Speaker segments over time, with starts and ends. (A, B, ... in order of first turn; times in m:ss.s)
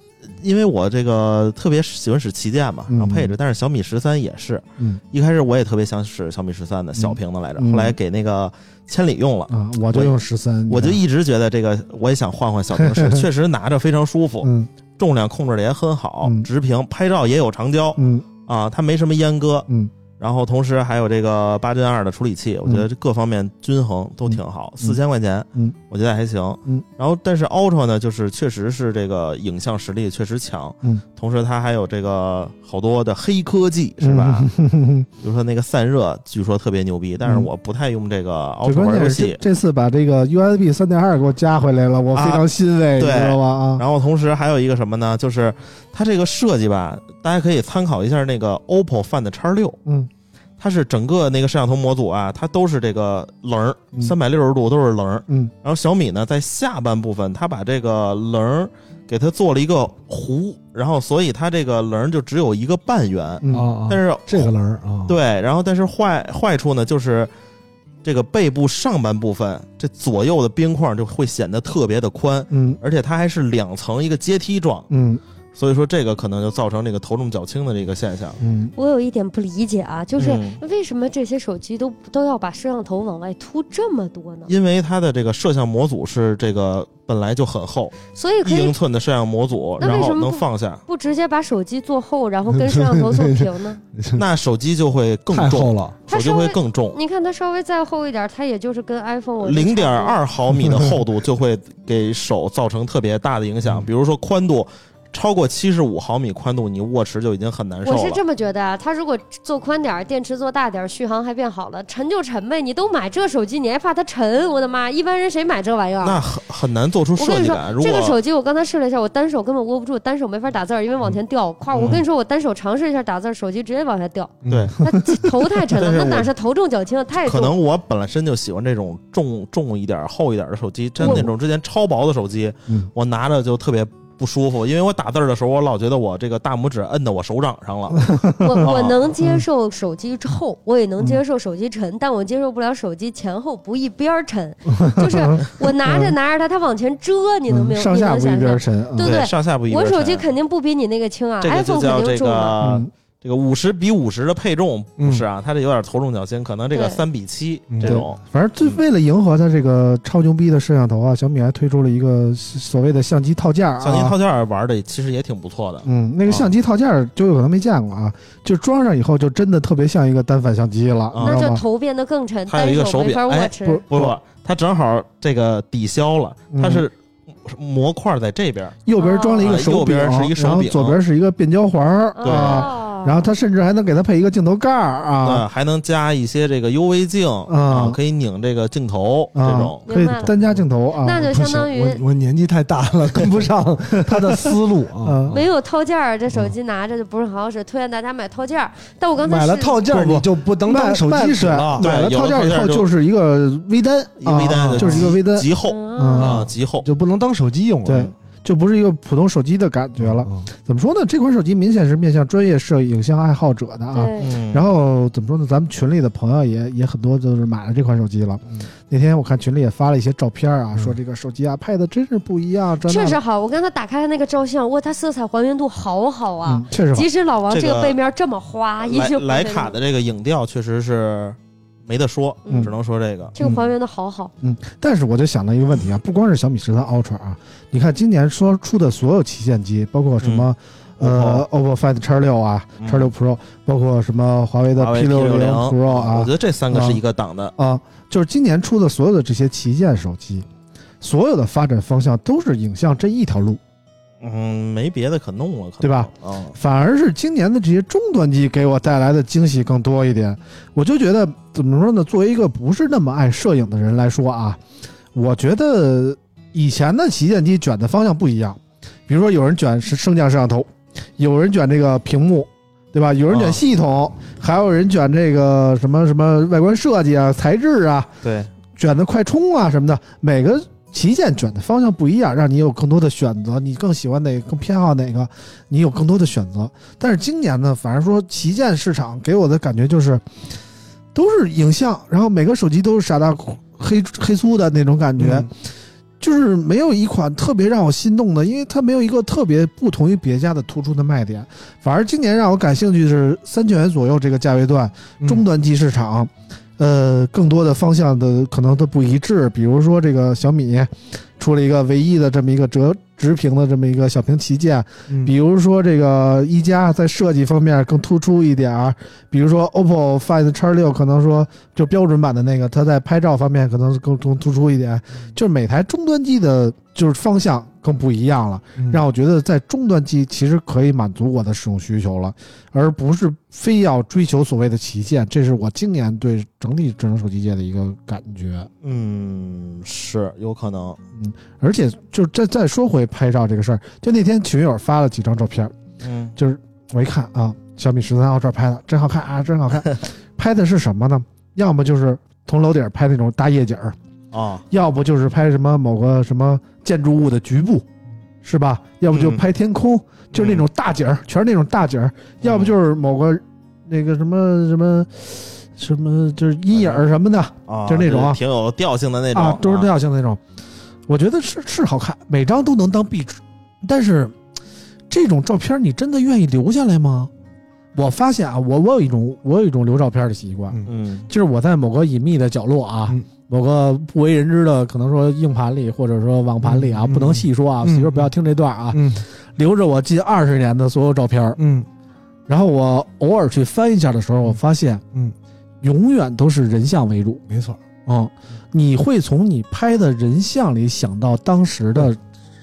0:00.3-0:19.7 A
0:02.9-0:03.3 B
0:07.0-0:08.0 B
0:09.5-0:11.0 B
0:12.7-0:13.2 B
0:14.4-0:14.7 B
0:18.0-0:18.2 B
0:20.2-0:34.5 A
0:24.3-0:25.0 B
0:34.0-0:35.1 B
0:35.2-0:39.4 A
0:37.2-0:37.5 B
0:38.6-0:43.8 B
0:42.1-0:42.4 A
0:43.0-0:49.8 A
0:49.8-0:50.1 B
0:50.6-1:04.5 A
1:03.4-1:03.7 B
1:03.5-1:05.2 C
1:05.1-1:07.3 A
1:08.0-1:14.9 A
1:12.5-1:12.8 B
1:14.9-1:15.2 B
1:15.5-1:18.4 A
1:18.4-1:18.7 B
1:18.8-1:24.5 D
1:20.2-1:20.6 A
1:24.5-1:30.8 A
1:28.1-1:28.8 D
1:29.8-1:33.8 D
1:32.5-1:34.2 C
1:34.1-1:37.0 A
1:35.3-1:36.0 C
1:36.1-1:40.2 D
1:39.4-1:48.2 A
1:47.8-1:56.2 D
1:56.0-1:58.2 A
1:57.2-2:07.6 D
2:01.7-2:02.0 A
2:04.4-2:04.7 C
2:04.5-2:04.8 A
2:05.7-2:06.3 A
2:07.2-2:19.1 A
2:11.0-2:11.3 B
2:11.0-2:11.3 D
2:18.1-2:18.6 B
2:18.4-2:32.6 D
2:24.7-2:26.2 B
2:27.5-2:29.2 B
2:29.0-2:30.3 A
2:31.4-2:38.8 A
2:32.6-2:32.9 B
2:35.0-2:35.2 C
2:36.7-2:37.0 D
2:37.7-2:38.0 C
2:37.8-2:44.1 B
2:43.8-2:46.5 A
2:45.8-2:51.6 B
2:51.1-2:51.4 A
2:51.2-2:53.8 D
2:52.5-3:01.0 A
2:53.6-2:54.2 B
2:56.5-2:56.8 B
2:58.8-3:05.4 B
2:59.0-2:59.5 D
3:02.1-3:03.2 D
3:02.2-3:02.7 A
3:05.2-3:09.8 A
3:07.5-3:08.0 B
3:09.3-3:11.5 B
3:09.8-3:10.3 D
3:10.2-3:10.6 C
3:11.0-3:12.0 D
3:11.3-3:15.4 C
3:14.1-3:14.5 B
3:15.0-3:15.4 B
3:15.3-3:19.8 D
3:19.2-3:21.8 C
3:19.9-3:26.4 B
3:21.8-3:22.9 A
3:24.2-3:26.9 A
3:24.7-3:25.1 C
3:25.6-3:26.3 D
3:26.2-3:28.1 C
3:27.8-3:43.2 B
3:30.0-3:30.5 C
3:33.9-3:34.3 D
3:34.2-3:34.7 A
3:42.8-3:49.8 D
3:46.4-3:47.1 B
3:47.5-3:48.0 A
3:48.8-3:53.3 A
3:52.4-3:52.7 D
3:53.3-3:54.3 D
3:53.4-3:53.7 B
3:54.4-4:07.0 B
4:00.2-4:01.4 A
4:02.8-4:03.1 A
4:04.8-4:07.5 A
4:07.6-4:10.5 B
4:11.0-4:13.6 B
4:14.2-4:16.5 A
4:15.8-4:24.6 B
4:25.1-4:38.1 B
4:33.3-4:33.6 A
4:38.2-4:38.5 A
4:38.8-4:50.2 B
4:51.1-4:55.5 B
4:55.2-4:55.5 C
4:56.2-5:38.7 B
5:38.8-5:41.0 A
5:41.2-5:45.7 B
5:46.0-5:46.3 A
5:46.4-5:54.0 B
5:54.3-5:54.6 A
5:54.7-5:57.8 B
5:58.4-6:08.4 B
5:59.1-5:59.4 A
6:00.3-6:00.6 A
6:02.4-6:02.7 A
6:06.7-6:07.0 A
6:07.7-6:09.9 A
6:09.3-6:10.4 B
6:11.1-6:14.3 B
6:15.1-6:17.3 B
6:17.9-6:31.6 B
6:20.9-6:21.2 A
6:26.6-6:28.3 C
6:28.9-6:29.2 C
6:31.6-6:31.9 C
6:32.5-6:35.0 B
6:35.8-6:37.4 B
6:37.5-6:37.8 C
6:38.0-6:42.2 B